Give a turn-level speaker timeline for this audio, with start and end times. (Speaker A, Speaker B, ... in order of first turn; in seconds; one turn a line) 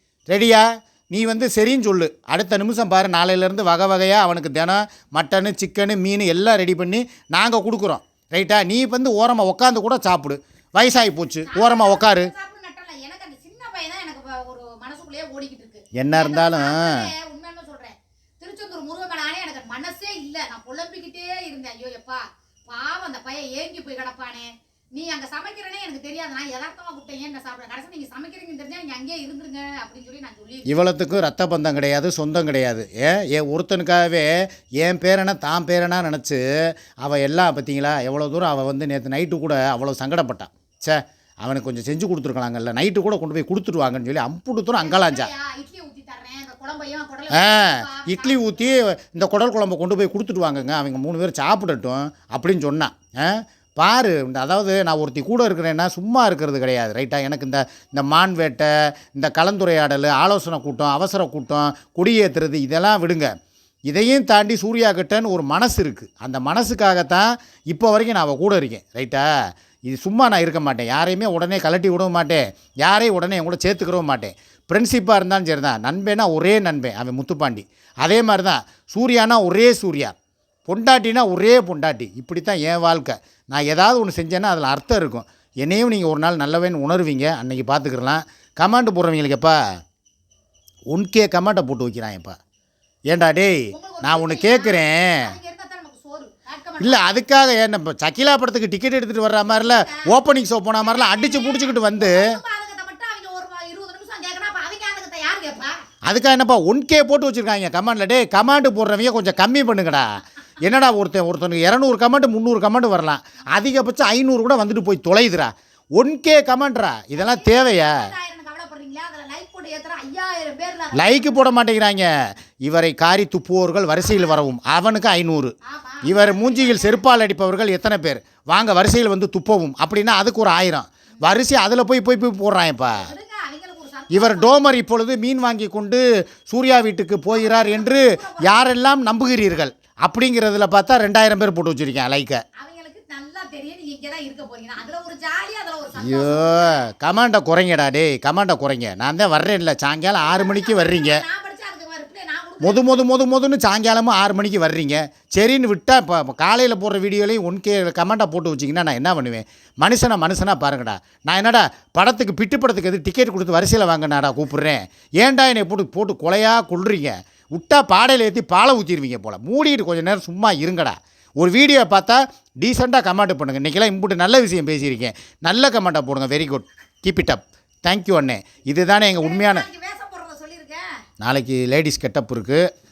Speaker A: 0.3-12.3
Speaker B: 11.5-30.7
Speaker A: 15.9-17.1
Speaker A: 30.7-45.3
Speaker B: 44.8-48.6
Speaker A: 47.3-63.3
Speaker A: 63.9-69.3
Speaker A: 69.9-80.1
Speaker A: 80.7-89.8
Speaker A: 90.9-92.4
Speaker A: 93.1-95.3
Speaker B: 93.7-97.2
Speaker A: 96.8-102.4
Speaker B: 99.4-100.1
Speaker B: 100.8-105.8
Speaker A: 106.0-118.1
Speaker B: 117.2-121.5
Speaker A: 120.9-133.1
Speaker B: 124.0-124.4
Speaker B: 125.7-127.0
Speaker B: 132.9-134.7
Speaker A: 134.1-142.4
Speaker B: 137.3-138.7
Speaker B: 142.6-146.8
Speaker A: 146.0-151.2
Speaker B: 150.2-153.1
Speaker A: 152.6-179.7
Speaker B: 179.2-181.0
Speaker A: 181.2-182.7